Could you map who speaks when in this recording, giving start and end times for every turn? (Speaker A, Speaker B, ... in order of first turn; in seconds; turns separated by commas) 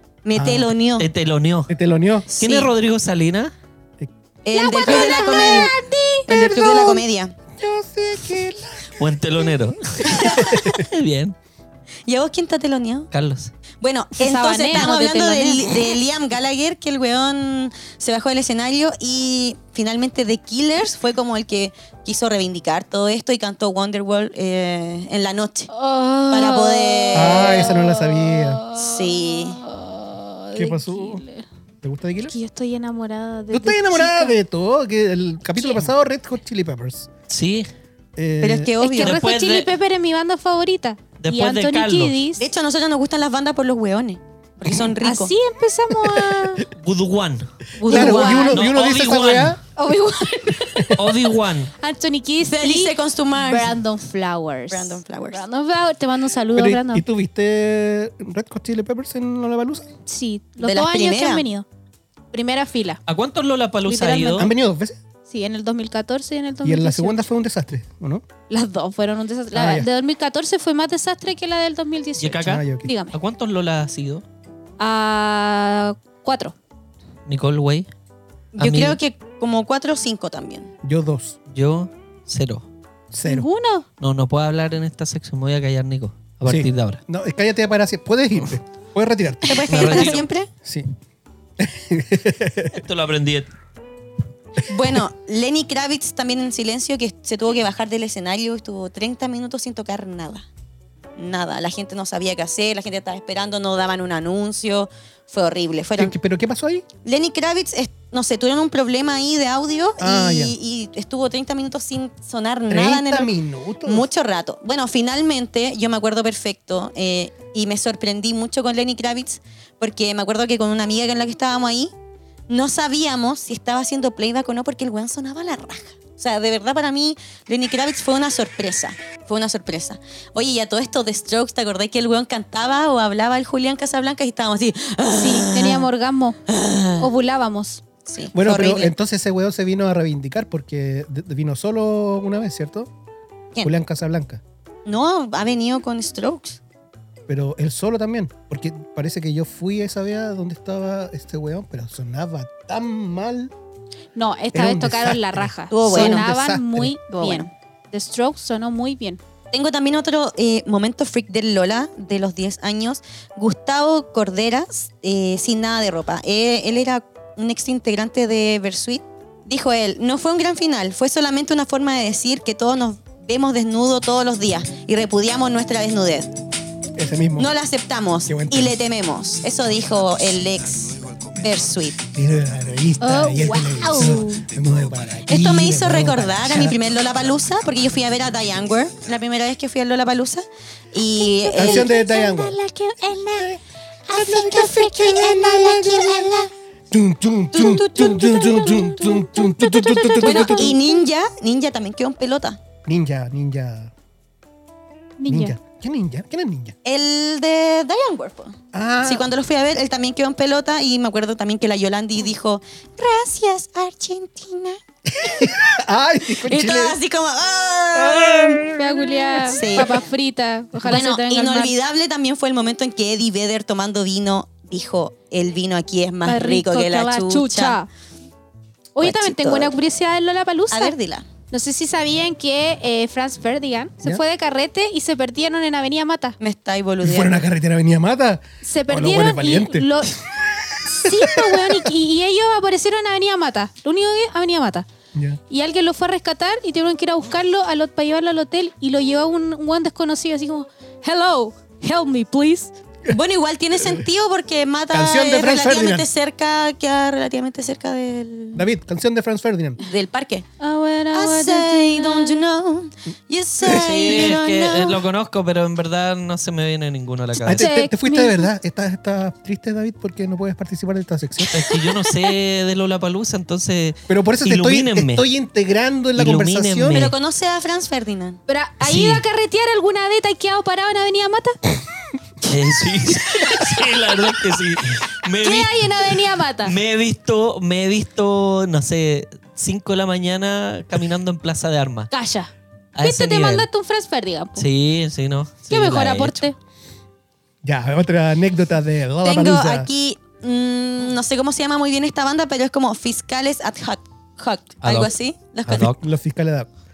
Speaker A: 0.2-1.1, Speaker B: 0.3-0.7, Speaker C: 1.0-1.7, Speaker B: 1.7-2.3, Speaker A: 2.3-2.7, Speaker C: 2.4-3.5, Speaker A: 4.4-5.7, Speaker D: 4.5-7.0, Speaker A: 6.3-7.3, Speaker B: 7.5-9.1, Speaker C: 9.0-11.3, Speaker B: 10.1-10.8, Speaker A: 12.1-13.1, Speaker C: 13.1-13.5, Speaker A: 13.8-25.7, Speaker D: 14.2-16.0, Speaker D: 25.7-31.4, Speaker A: 26.3-27.6, Speaker B: 27.1-28.6, Speaker A: 28.8-29.6, Speaker B: 30.5-31.2, Speaker B: 31.8-32.3, Speaker D: 32.2-34.4, Speaker B: 33.5-37.1, Speaker D: 35.6-35.9, Speaker C: 37.3-37.7, Speaker B: 38.1-38.7, Speaker A: 38.4-39.2, Speaker D: 38.8-42.4, Speaker C: 38.9-39.7, Speaker C: 41.2-42.2, Speaker A: 42.4-45.3, Speaker D: 45.0-46.7, Speaker B: 46.0-46.5, Speaker C: 46.7-47.5, Speaker D: 47.8-48.6, Speaker B: 47.8-49.6, Speaker A: 47.8-48.5, Speaker C: 48.0-49.6, Speaker D: 49.8-51.3, Speaker C: 50.9-51.7, Speaker D: 51.8-57.0, Speaker A: 52.4-53.7, Speaker A: 54.7-55.4, Speaker B: 56.5-59.9, Speaker D: 60.0-61.6, Speaker A: 60.6-61.5, Speaker D: 62.3-63.0, Speaker C: 63.1-64.5, Speaker D: 63.8-64.5, Speaker B: 64.3-65.0, Speaker D: 65.3-67.2, Speaker B: 66.6-68.2, Speaker D: 68.5-73.1, Speaker B: 69.5-69.9, Speaker C: 72.2-74.2, Speaker B: 72.4-72.9, Speaker D: 74.8-76.5, Speaker C: 77.3-77.9, Speaker A: 78.5-80.7, Speaker C: 78.6-79.0, Speaker B: 80.8-81.3, Speaker C: 81.5-82.7, Speaker B: 83.1-83.5, Speaker D: 83.2-83.8, Speaker C: 84.0-87.0, Speaker B: 86.5-90.9, Speaker A: 89.4-90.5, Speaker C: 89.7-90.3, Speaker B: 91.6-92.8, Speaker C: 92.7-93.5, Speaker A: 94.7-100.5, Speaker A: 101.2-106.1, Speaker B: 106.0-106.8, Speaker A: 107.0-113.3, Speaker B: 110.0-110.5, Speaker B: 112.7-114.1, Speaker A: 113.8-121.9, Speaker A: 122.5-135.9, Speaker D: 135.2-136.4, Speaker A: 136.5-137.1, Speaker D: 137.0-137.8, Speaker A: 138.0-138.9, Speaker B: 138.3-142.9, Speaker B: 143.6-144.4, Speaker A: 144.8-146.6, Speaker B: 147.3-153.5, Speaker D: 154.1-159.2, Speaker B: 154.5-157.0, Speaker A: 155.7-156.2, Speaker A: 157.1-157.5, Speaker A: 159.5-176.3, Speaker B: 176.9-177.5, Speaker A: 177.4-182.0, Speaker B: 178.3-178.8, Speaker B: 182.1-186.8, Speaker D: 183.0-184.4, Speaker A: 185.3-191.9, Speaker D: 191.2-193.6, Speaker B: 191.6-192.6, Speaker B: 193.3-193.6, Speaker D: 194.1-196.5, Speaker A: 194.1-196.5, Speaker B: 194.1-196.3, Speaker B: 196.9-200.8, Speaker D: 197.5-201.0, Speaker A: 200.2-202.6, Speaker B: 202.8-203.9, Speaker D: 205.2-205.6, Speaker B: 205.3-206.7, Speaker A: 206.8-215.5, Speaker B: 208.7-209.3, Speaker B: 215.1-217.0, Speaker A: 216.4-218.7, Speaker B: 217.9-219.8, Speaker D: 218.8-221.7, Speaker A: 219.4-220.0, Speaker A: 220.8-227.8, Speaker D: 226.2-227.9, Speaker D: 228.9-230.9, Speaker A: 229.0-229.7, Speaker A: 230.7-231.3, Speaker D: 231.5-236.4, Speaker A: 236.4-237.3, Speaker B: 237.0-241.8, Speaker D: 238.6-240.2, Speaker D: 240.8-244.9, Speaker B: 245.1-245.4, Speaker D: 245.5-252.7, Speaker A: 253.1-258.6, Speaker B: 254.9-256.1, Speaker B: 258.5-259.8, Speaker A: 259.8-260.5, Speaker D: 260.6-262.4, Speaker A: 261.1-265.0, Speaker B: 263.6-264.3, Speaker C: 263.7-267.7, Speaker B: 267.4-271.7, Speaker D: 267.5-268.5, Speaker C: 271.5-275.2, Speaker B: 274.1-277.1, Speaker C: 276.1-277.1, Speaker A: 276.9-278.4, Speaker D: 278.5-281.6, Speaker C: 278.8-279.2, Speaker C: 282.4-292.1, Speaker D: 285.4-286.7, Speaker D: 292.1-294.7, Speaker C: 292.9-293.7, Speaker C: 294.6-296.5, Speaker D: 295.7-296.6, Speaker B: 297.6-299.9, Speaker A: 299.2-305.9, Speaker C: 304.8-305.1, Speaker C: 305.7-306.0, Speaker B: 306.0-306.7